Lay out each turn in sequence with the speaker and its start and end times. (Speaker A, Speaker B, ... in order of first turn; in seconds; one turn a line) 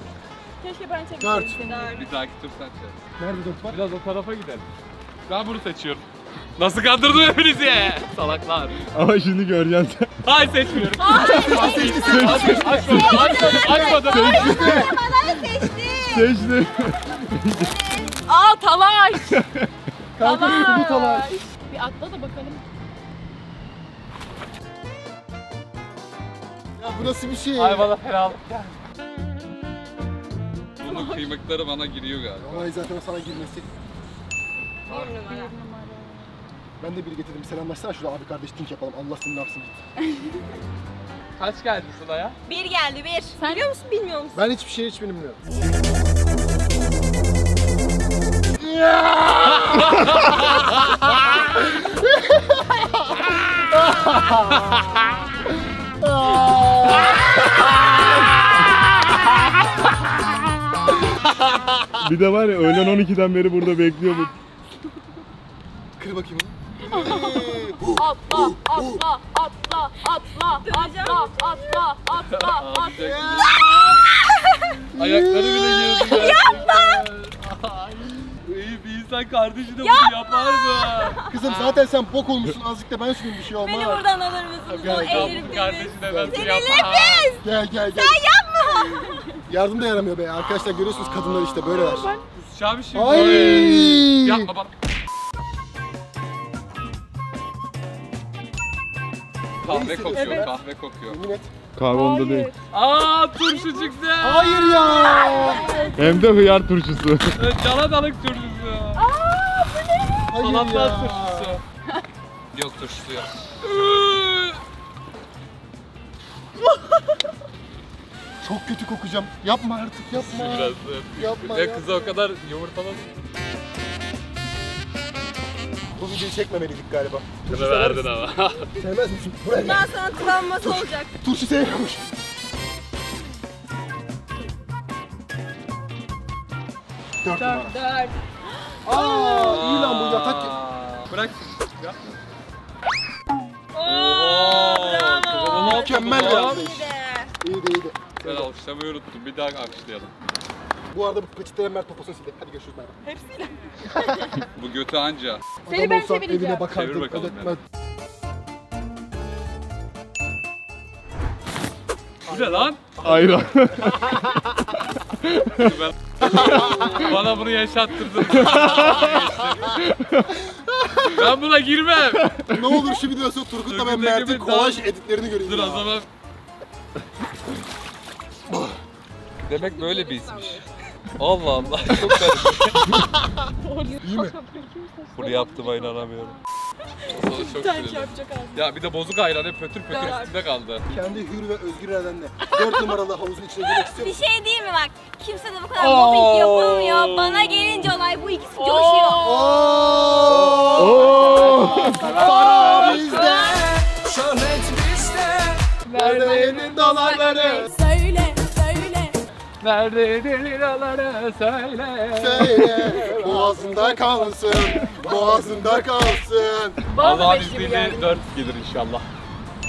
Speaker A: 0.6-2.0
Speaker B: 1.2-1.6
Speaker C: 1.6-2.0
Speaker D: 2.0-3.0
Speaker B: 3.2-3.8
Speaker D: 3.7-4.7
Speaker D: 5.3-6.0
Speaker D: 6.6-8.8
Speaker E: 8.9-10.1
Speaker D: 10.2-14.5
Speaker A: 11.0-12.2
Speaker B: 11.1-14.9
Speaker C: 11.3-16.3
Speaker E: 11.9-17.8
Speaker A: 13.3-14.1
Speaker C: 17.6-18.1
Speaker A: 18.2-19.4
Speaker E: 19.3-19.7
Speaker B: 20.2-21.3
Speaker A: 20.2-22.6
Speaker B: 26.8-27.9
Speaker D: 27.5-28.8
Speaker D: 30.8-32.7
Speaker A: 30.8-31.4
Speaker B: 32.4-33.7
Speaker C: 34.9-35.5
Speaker A: 34.9-36.5
Speaker B: 36.8-39.8
Speaker D: 41.4-42.4
Speaker C: 42.5-44.4
Speaker A: 43.4-43.7
Speaker B: 44.4-45.4
Speaker B: 48.6-50.8
Speaker B: 53.9-54.7
Speaker B: 56.0-57.9
Speaker E: 62.0-64.3
Speaker B: 66.0-69.0
Speaker A: 66.8-73.0
Speaker C: 70.6-71.9
Speaker D: 72.3-73.5
Speaker B: 73.0-74.0
Speaker C: 73.3-74.8
Speaker B: 74.9-76.7
Speaker D: 75.0-81.8
Speaker C: 75.7-77.1
Speaker C: 79.8-81.3
Speaker B: 81.3-84.0
Speaker C: 83.5-89.3
Speaker D: 84.7-87.3
Speaker B: 84.8-85.5
Speaker B: 87.4-88.2
Speaker B: 89.5-92.1
Speaker D: 91.1-91.5
Speaker A: 91.6-92.3
Speaker D: 92.3-94.7
Speaker B: 93.0-94.5
Speaker D: 99.6-101.2
Speaker B: 99.7-101.5
Speaker A: 100.2-100.5
Speaker E: 101.8-102.5
Speaker A: 101.9-102.6
Speaker D: 102.7-104.7
Speaker A: 103.5-103.9
Speaker B: 104.2-105.7
Speaker A: 104.5-106.4
Speaker C: 105.0-105.9
Speaker E: 106.0-107.4
Speaker D: 107.3-109.0
Speaker A: 109.0-110.2
Speaker B: 110.3-111.6
Speaker D: 110.4-111.6
Speaker D: 112.5-114.6
Speaker B: 118.4-122.1
Speaker D: 120.1-123.0
Speaker B: 126.0-128.1
Speaker D: 127.5-128.7
Speaker B: 128.8-132.1
Speaker C: 129.6-131.1
Speaker B: 137.2-137.7
Speaker C: 137.4-138.2
Speaker B: 138.8-140.6
Speaker D: 139.4-142.0
Speaker C: 143.7-147.3
Speaker D: 143.8-146.7
Speaker B: 145.6-148.5
Speaker D: 148.2-150.1
Speaker B: 150.9-153.0
Speaker A: 153.1-153.8
Speaker D: 154.6-155.4
Speaker B: 155.7-157.6
Speaker A: 155.7-156.7
Speaker D: 156.7-157.6
Speaker D: 162.2-162.9
Speaker B: 162.3-163.9
Speaker E: 163.0-164.3
Speaker E: 165.2-165.7
Speaker D: 165.6-169.8
Speaker B: 166.2-167.1
Speaker E: 166.3-166.9
Speaker E: 168.4-169.1
Speaker E: 169.8-170.3
Speaker D: 171.1-172.3
Speaker E: 172.2-172.9
Speaker B: 172.5-175.9
Speaker D: 173.7-174.9
Speaker D: 175.4-176.1
Speaker B: 178.5-178.8
Speaker D: 179.5-180.6
Speaker C: 179.5-180.7
Speaker D: 181.2-182.8
Speaker A: 181.6-182.0
Speaker A: 183.6-186.3
Speaker B: 184.0-184.3
Speaker D: 185.2-186.4
Speaker D: 187.1-190.9
Speaker A: 187.1-188.7
Speaker C: 189.9-190.4
Speaker A: 189.9-190.2
Speaker B: 190.9-194.2
Speaker A: 192.6-192.9
Speaker C: 193.7-199.3
Speaker D: 195.8-197.9
Speaker A: 198.5-199.9
Speaker B: 199.2-203.8
Speaker D: 200.2-205.6
Speaker E: 200.8-202.0
Speaker A: 202.1-203.5
Speaker A: 205.8-209.2
Speaker B: 205.9-207.7
Speaker D: 209.6-213.4
Speaker B: 212.2-216.8
Speaker A: 213.0-215.6
Speaker C: 215.1-216.1
Speaker A: 216.9-218.2
Speaker D: 217.0-219.1